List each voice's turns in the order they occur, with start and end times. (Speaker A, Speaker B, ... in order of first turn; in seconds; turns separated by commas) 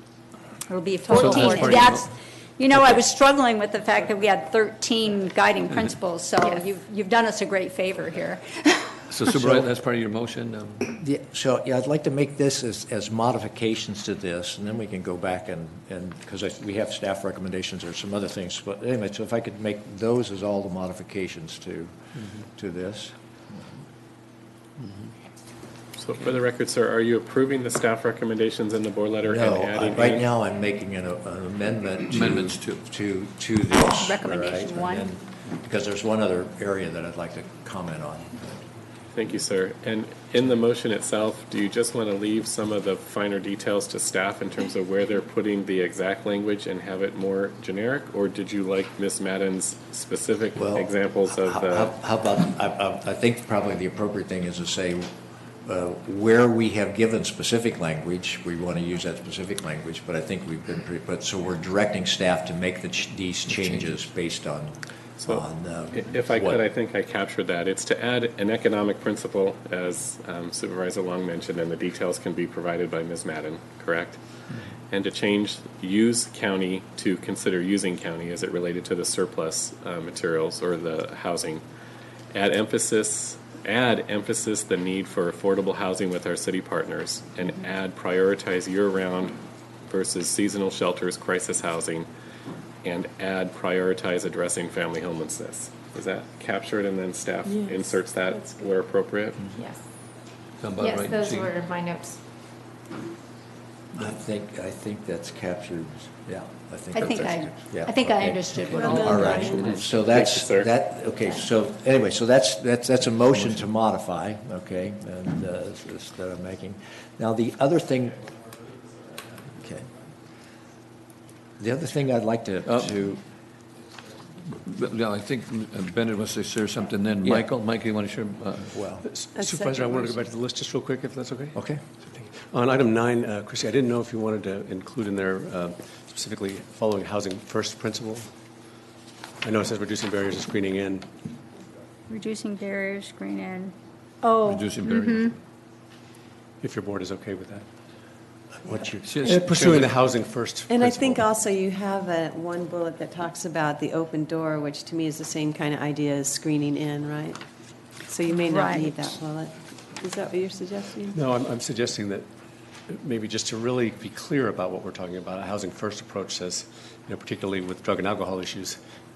Speaker A: 0.7-9.1, Speaker B: 1.1-2.1, Speaker C: 1.1-1.9, Speaker B: 9.1-11.0, Speaker D: 10.9-23.6, Speaker E: 26.0-30.3, Speaker D: 29.2-38.7, Speaker B: 32.1-32.8, Speaker A: 34.0-35.0, Speaker E: 39.1-51.9, Speaker D: 50.5-66.6, Speaker B: 63.5-64.0, Speaker E: 65.2-74.2, Speaker E: 74.9-81.6, Speaker E: 82.3-92.1, Speaker E: 92.8-99.6, Speaker F: 97.5-98.6, Speaker C: 99.5-99.9, Speaker B: 100.6-101.6, Speaker C: 100.8-102.2, Speaker D: 104.0-118.2, Speaker A: 106.9-109.7, Speaker F: 108.7-109.8, Speaker E: 109.4-110.7, Speaker B: 113.3-113.7, Speaker D: 119.5-119.9, Speaker D: 121.6-123.2, Speaker B: 122.7-122.9, Speaker B: 124.5-128.8, Speaker D: 127.2-127.5, Speaker D: 128.7-129.1, Speaker G: 129.0-138.3, Speaker F: 129.3-130.1, Speaker D: 131.5-131.8, Speaker G: 139.4-141.1, Speaker A: 142.1-143.7, Speaker B: 144.4-145.4, Speaker A: 144.8-145.2, Speaker G: 146.6-147.6, Speaker D: 148.6-149.8, Speaker B: 149.0-149.9, Speaker G: 149.2-151.2, Speaker F: 150.7-157.4, Speaker F: 158.0-161.2, Speaker A: 158.3-159.1, Speaker G: 161.1-162.3, Speaker G: 162.9-168.8